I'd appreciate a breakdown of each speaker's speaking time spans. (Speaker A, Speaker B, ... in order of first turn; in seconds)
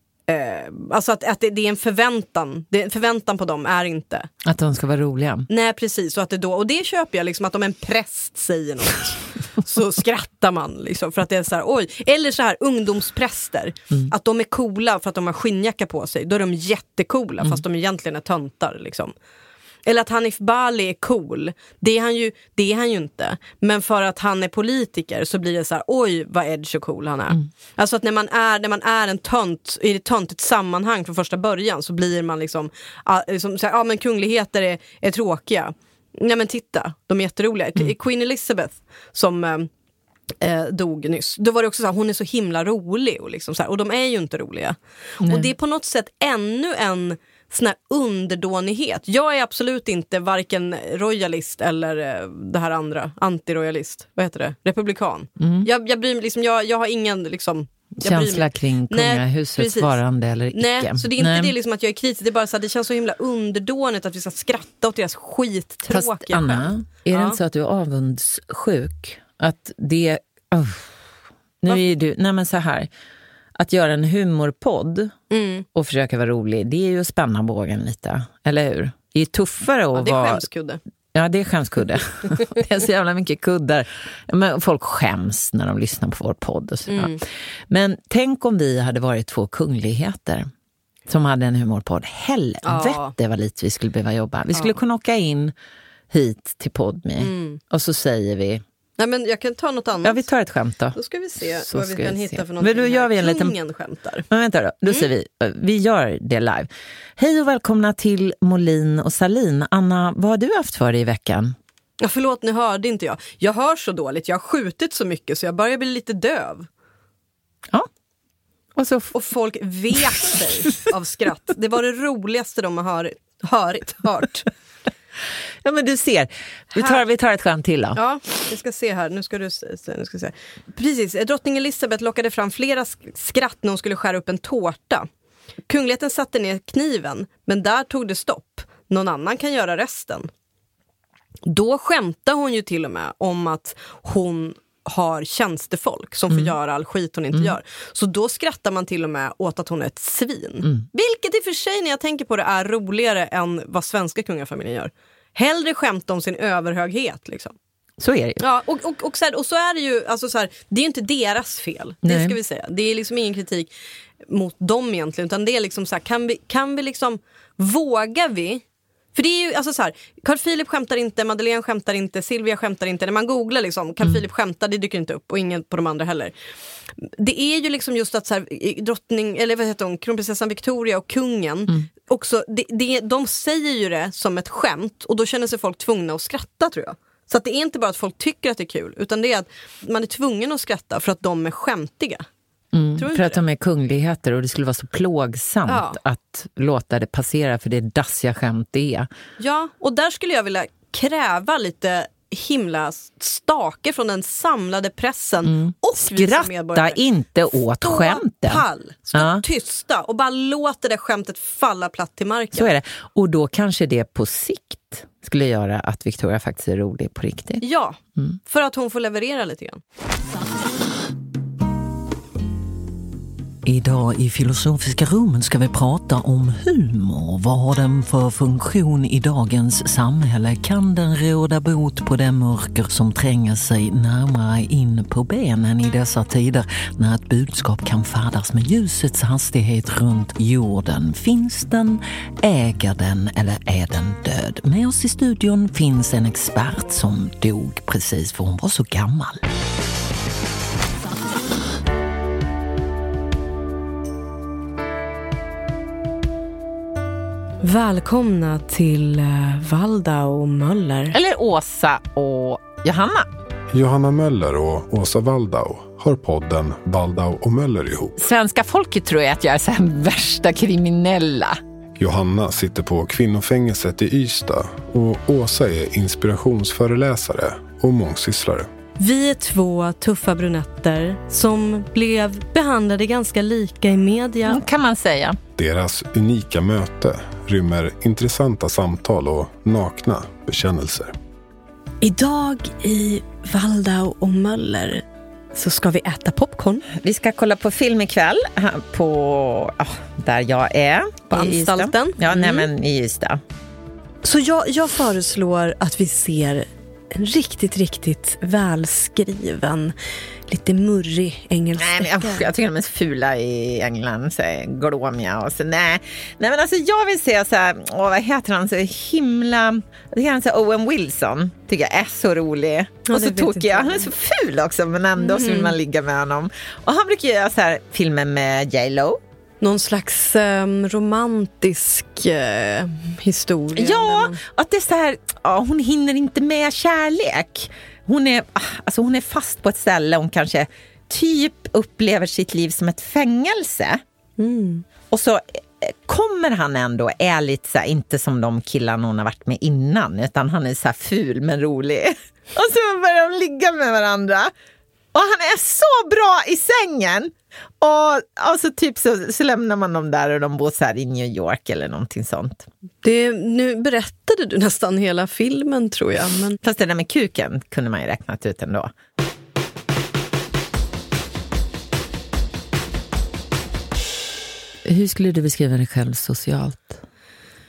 Speaker A: 0.3-4.3, 5.5-19.1, 19.8-39.7, 40.4-60.0, 60.5-67.4, 75.3-75.7, 80.0-80.8, 86.9-87.2, 92.6-93.1, 97.2-97.6, 99.0-100.2, 100.9-104.2, 112.0-116.7, 119.1-124.5, 128.0-135.1, 135.7-140.3, 141.4-157.6, 158.4-163.7, 164.3-176.3, 177.0-192.3, 192.9-193.4, 195.7-196.0, 199.4-207.0, 207.8-212.7, 217.6-219.8, 257.6-261.2, 279.0-284.6, 292.0-296.9, 301.3-302.7, 304.2-309.9, 310.5-312.5, 323.1-324.1, 325.2-325.7, 329.6-334.4, 344.4-344.8, 363.0-366.6
Speaker B: 4.4-5.5, 45.2-45.5, 55.4-55.7, 58.0-61.5, 65.9-71.0, 71.6-72.9, 73.5-75.1, 75.7-80.5, 81.1-90.5, 91.1-95.5, 96.1-98.6, 100.0-101.0, 101.5-103.5, 104.3-111.5, 118.8-119.1, 125.6-128.0, 158.0-158.4, 162.0-162.3, 192.7-199.1, 205.5-209.4, 212.5-217.6, 223.6-249.4, 261.1-263.3, 268.2-271.6, 284.4-285.4, 296.9-303.4, 311.8-329.2, 333.7-344.0, 345.1-354.5, 355.1-362.7, 366.6-368.9, 374.8-377.0
Speaker C: 263.7-268.1, 272.0-278.7, 285.6-291.1